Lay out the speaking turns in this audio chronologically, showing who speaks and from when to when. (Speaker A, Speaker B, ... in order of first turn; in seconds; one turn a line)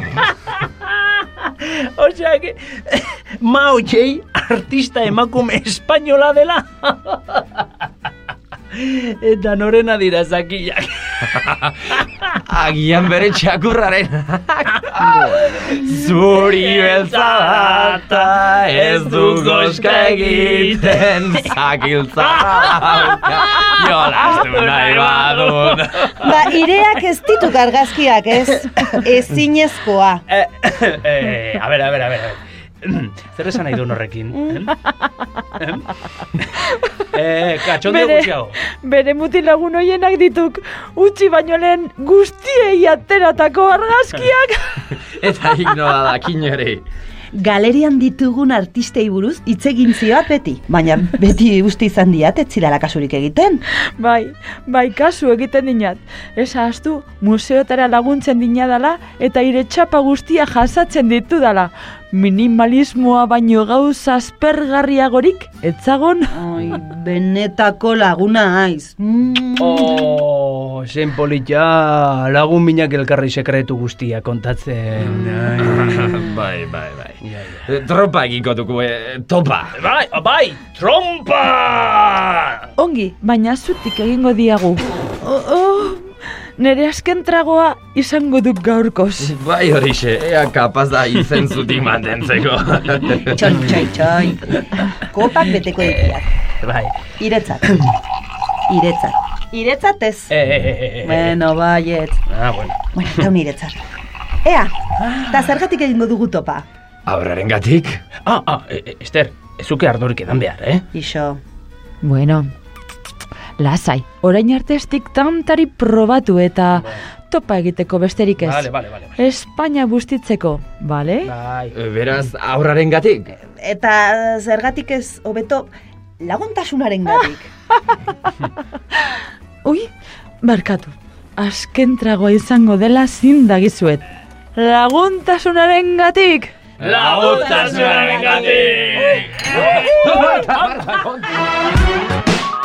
Speaker A: 0.1-7.7
Speaker A: 8.7-12.2
Speaker B: 11.4-11.7
Speaker B: 12.4-26.4
Speaker A: 15.0-15.6
Speaker A: 16.3-21.5
Speaker A: 22.2-26.4
Speaker C: 26.2-30.2
Speaker A: 30.3-34.8
Speaker A: 35.6-36.5
Speaker A: 37.1-38.6
Speaker D: 37.8-44.8
Speaker B: 44.9-46.8
Speaker C: 47.3-53.6
Speaker D: 54.0-66.4
Speaker C: 66.3-69.9
Speaker A: 69.6-76.2
Speaker B: 75.6-79.8
Speaker A: 77.2-77.7
Speaker A: 79.7-82.6
Speaker D: 82.8-89.3
Speaker B: 89.2-93.6
Speaker C: 93.2-96.3
Speaker A: 95.8-97.0
Speaker C: 97.2-97.7
Speaker A: 97.7-97.9
Speaker C: 98.7-100.3
Speaker A: 100.3-101.4
Speaker C: 101.0-102.2
Speaker A: 102.3-102.8
Speaker C: 102.9-103.8
Speaker C: 104.4-104.7
Speaker A: 105.0-105.5
Speaker C: 105.3-106.7
Speaker B: 107.1-108.0
Speaker A: 108.2-110.8
Speaker C: 110.9-111.4
Speaker D: 112.0-112.5
Speaker D: 113.6-121.3
Speaker A: 118.4-119.2
Speaker A: 121.2-121.7
Speaker B: 121.7-123.3
Speaker C: 123.5-127.5
Speaker D: 130.4-134.0
Speaker D: 134.5-136.5
Speaker A: 136.8-140.8
Speaker B: 136.8-141.4